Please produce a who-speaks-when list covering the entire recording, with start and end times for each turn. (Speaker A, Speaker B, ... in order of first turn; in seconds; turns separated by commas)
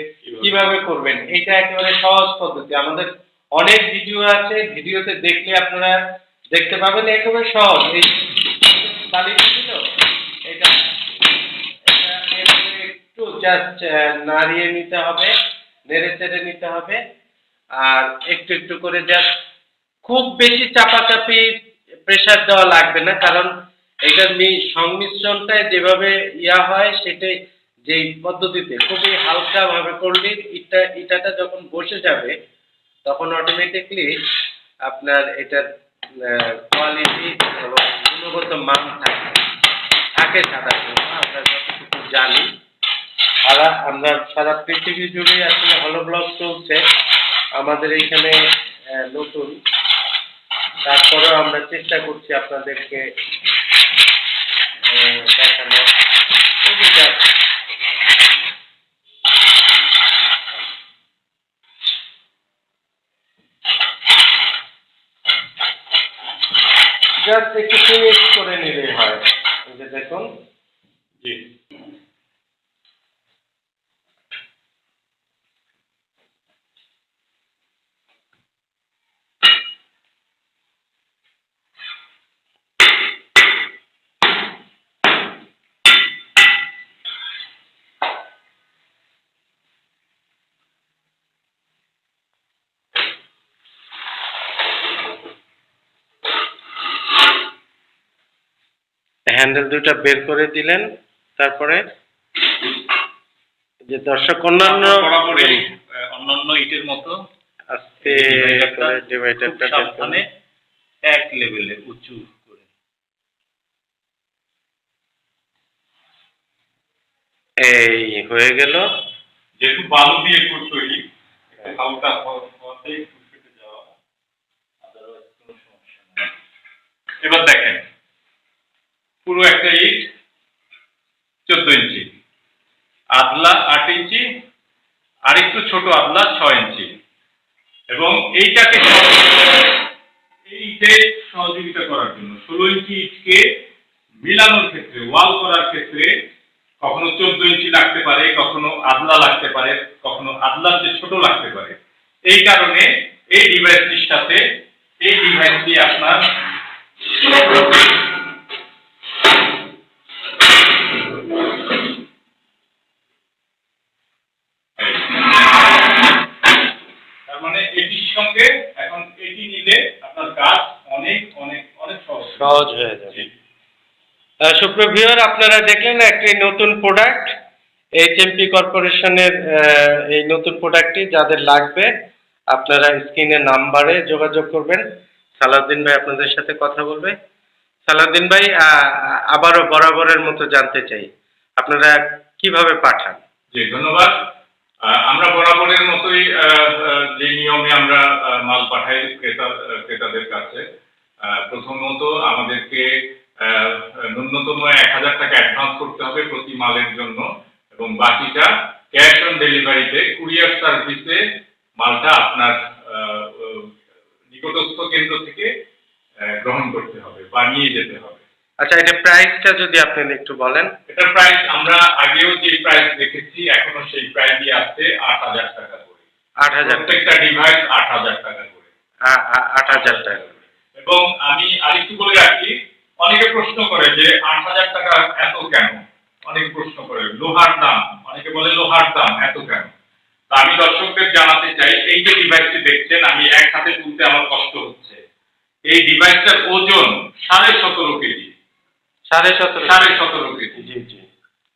Speaker A: 0.2-0.8, Speaker B: 0.4-5.9, Speaker B: 6.5-9.8, Speaker B: 10.5-10.8, Speaker B: 11.8-15.3, Speaker B: 15.9-17.0, Speaker B: 17.8-19.3, Speaker B: 20.0-21.5, Speaker B: 22.1-23.5, Speaker B: 24.1-27.3, Speaker B: 27.9-32.3, Speaker B: 33.0-34.1, Speaker B: 34.9-35.6, Speaker B: 36.2-39.4, Speaker B: 40.1-42.5, Speaker B: 43.4-46.8, Speaker B: 47.6-48.4, Speaker B: 48.9-49.6, Speaker B: 50.9-53.0, Speaker B: 54.8-55.9, Speaker B: 56.6-57.2, Speaker B: 67.2-70.2, Speaker B: 99.3-100.8, Speaker B: 101.4-101.8, Speaker B: 103.9-105.6, Speaker A: 104.6-107.1, Speaker B: 107.7-110.2, Speaker A: 108.0-110.2, Speaker A: 111.1-112.7, Speaker B: 117.6-118.8, Speaker A: 119.6-121.0, Speaker A: 121.5-123.9, Speaker A: 124.8-126.3, Speaker A: 127.2-127.8, Speaker A: 129.2-130.1, Speaker A: 131.5-132.1, Speaker A: 133.2-134.2, Speaker A: 135.3-136.9, Speaker A: 137.9-139.8, Speaker A: 140.5-143.4, Speaker A: 144.2-146.1, Speaker A: 146.8-151.8, Speaker A: 152.3-154.4, Speaker A: 155.0-156.2, Speaker A: 164.8-165.3, Speaker A: 167.3-173.3, Speaker B: 172.4-173.2, Speaker B: 174.4-177.3, Speaker B: 178.0-181.9, Speaker B: 182.5-184.8, Speaker B: 185.4-187.1, Speaker B: 187.8-193.2, Speaker A: 193.5-194.2, Speaker A: 194.9-200.6, Speaker A: 201.2-211.2, Speaker A: 211.8-213.7, Speaker A: 214.3-215.5, Speaker A: 216.4-218.2, Speaker B: 218.6-220.7, Speaker A: 220.9-226.0, Speaker B: 226.4-227.0, Speaker A: 226.6-228.6, Speaker B: 229.1-230.2, Speaker A: 229.7-239.7, Speaker A: 240.3-245.0, Speaker A: 245.7-248.3, Speaker B: 249.1-250.0, Speaker A: 249.6-250.6, Speaker B: 250.6-251.1